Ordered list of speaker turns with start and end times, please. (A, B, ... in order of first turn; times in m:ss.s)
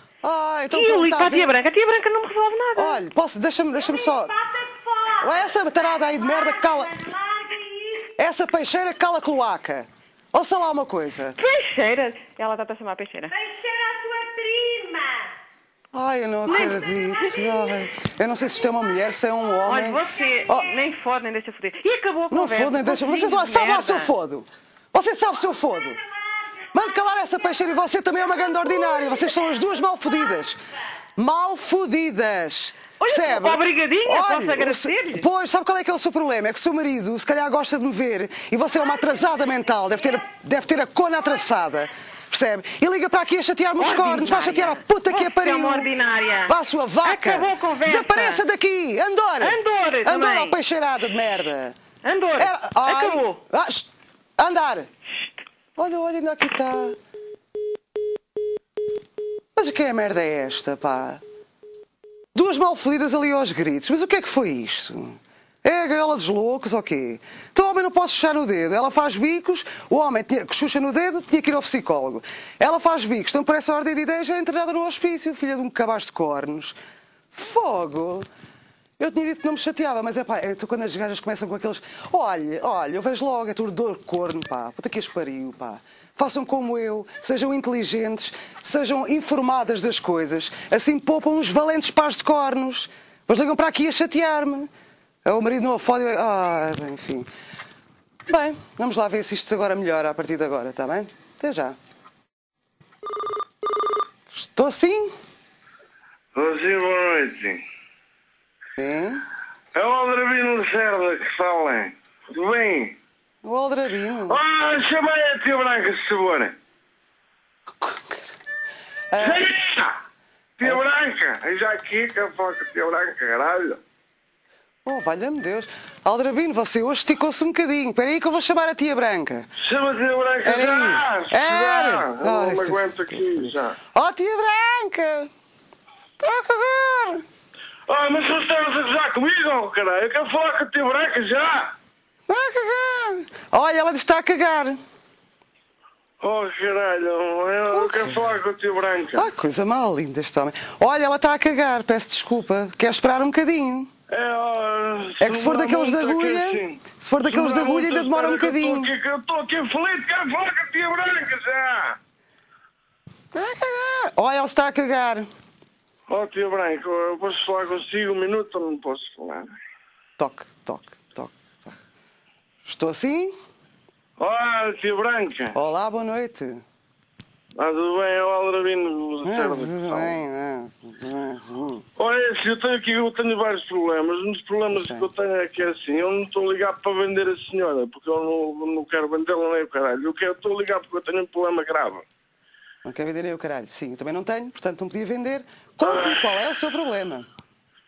0:00.2-0:01.6 A
0:00.7-0:03.0 B
0:02.7-0:04.3 A
0:03.8-0:08.1 C
0:05.2-0:07.1 A
0:08.2-0:11.4 A
0:11.4-0:13.3 B
0:13.3-0:15.3 C
0:15.9-0:20.7 A
0:16.4-0:17.6 B
0:17.2-0:17.7 C
0:19.6-0:24.1 B
0:22.3-0:26.0 A
0:25.7-0:27.8 C
0:26.7-0:30.6 A
0:28.3-0:30.3 C
0:31.2-0:45.9 A
0:33.0-0:35.2 B
0:43.8-0:48.4 B
0:46.5-0:51.8 A
0:49.4-0:50.6 B
0:52.0-0:53.4 B
0:52.4-0:54.9 A
0:55.8-0:57.0 A
0:59.5-1:01.2 A
1:02.3-1:16.8 A
1:17.3-1:18.2 A
1:19.0-1:34.7 A
1:35.2-1:37.3 A
1:38.3-1:41.8 A
1:44.3-1:45.1 A
1:46.3-1:47.6 D
1:48.7-1:49.2 A
1:49.7-1:53.0 D
1:53.4-1:54.4 A
1:54.3-1:56.6 D
1:57.7-1:58.3 A
1:59.1-1:59.5 A
1:59.2-2:00.0 D
2:00.6-2:03.8 D
2:04.8-2:09.5 A
2:09.6-2:13.8 D
2:10.4-2:15.3 A
2:16.2-2:17.2 A
2:17.9-2:21.7 D
2:22.3-2:24.8 A
2:26.2-2:29.2 D
2:27.7-2:28.2 A
2:29.1-2:33.9 A
2:34.1-2:42.0 D
2:35.2-2:38.9 A
2:43.3-2:45.3 A
2:46.1-2:49.5 D
2:50.2-2:51.8 A
2:52.6-2:53.3 A
2:54.2-2:55.6 D
2:55.5-2:56.6 A
2:57.6-3:00.1 D
2:59.2-3:01.8 A
3:02.0-3:12.0 D
3:04.7-3:05.1 A
3:12.8-3:17.3 A
3:15.8-3:16.2 D